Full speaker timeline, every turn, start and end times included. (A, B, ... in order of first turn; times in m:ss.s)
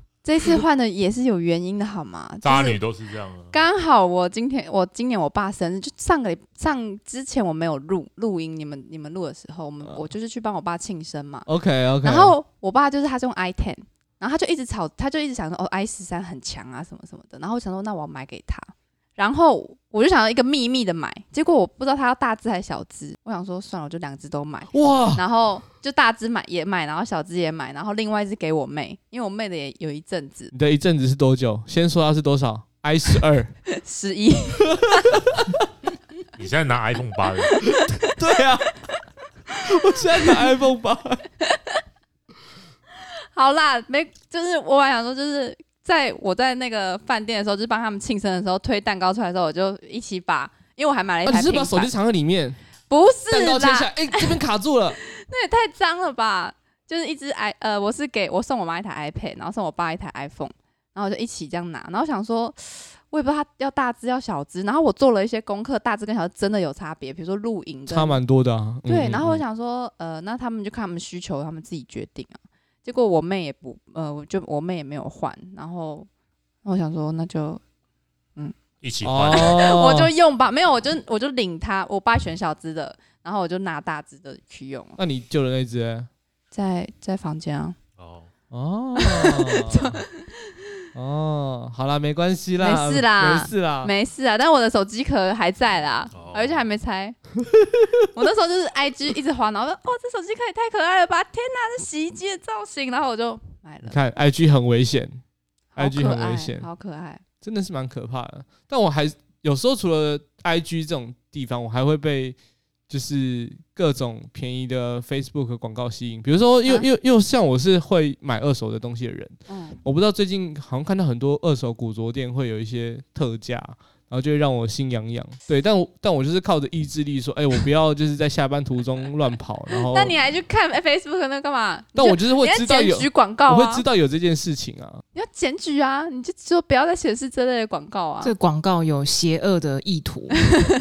0:00.2-0:02.8 A
0:02.4-0:03.5 B
0:03.5-0:11.5 A
0:11.4-0:12.3 C
0:12.0-0:30.5 A
0:24.7-0:25.2 C
0:30.5-0:33.6 C
0:33.7-0:35.2 A
0:34.8-0:35.4 C
0:36.4-0:37.6 B
0:37.5-0:38.1 A
0:38.0-0:38.7 C
0:39.7-0:41.2 C
0:40.0-0:40.3 A
0:41.5-0:41.8 A
0:43.3-0:51.9 A
0:51.2-0:52.6 C
0:52.9-0:54.4 A
0:53.3-0:55.0 C
0:55.0-1:08.2 A
1:07.9-1:09.4 C
1:08.8-1:16.1 A
1:16.6-1:17.6 A
1:18.8-1:19.6 B
1:19.0-1:20.1 C
1:19.3-1:25.0 A
1:25.0-1:26.1 C
1:26.5-1:27.8 A
1:28.0-1:28.3 B
1:28.5-1:30.0 C
1:29.0-1:30.5 A
1:30.9-1:33.9 C
1:32.6-1:37.2 A
1:36.1-1:36.6 B
1:37.6-1:37.9 C
1:38.1-1:43.9 A
1:43.9-1:45.2 C
1:45.7-1:47.2 A
1:45.8-1:46.7 C
1:47.4-1:52.4 C
1:52.9-2:10.1 C
1:59.5-1:59.8 A
2:09.8-2:13.8 A
2:12.0-2:15.0 C
2:15.1-2:18.3 A
2:18.2-2:20.6 D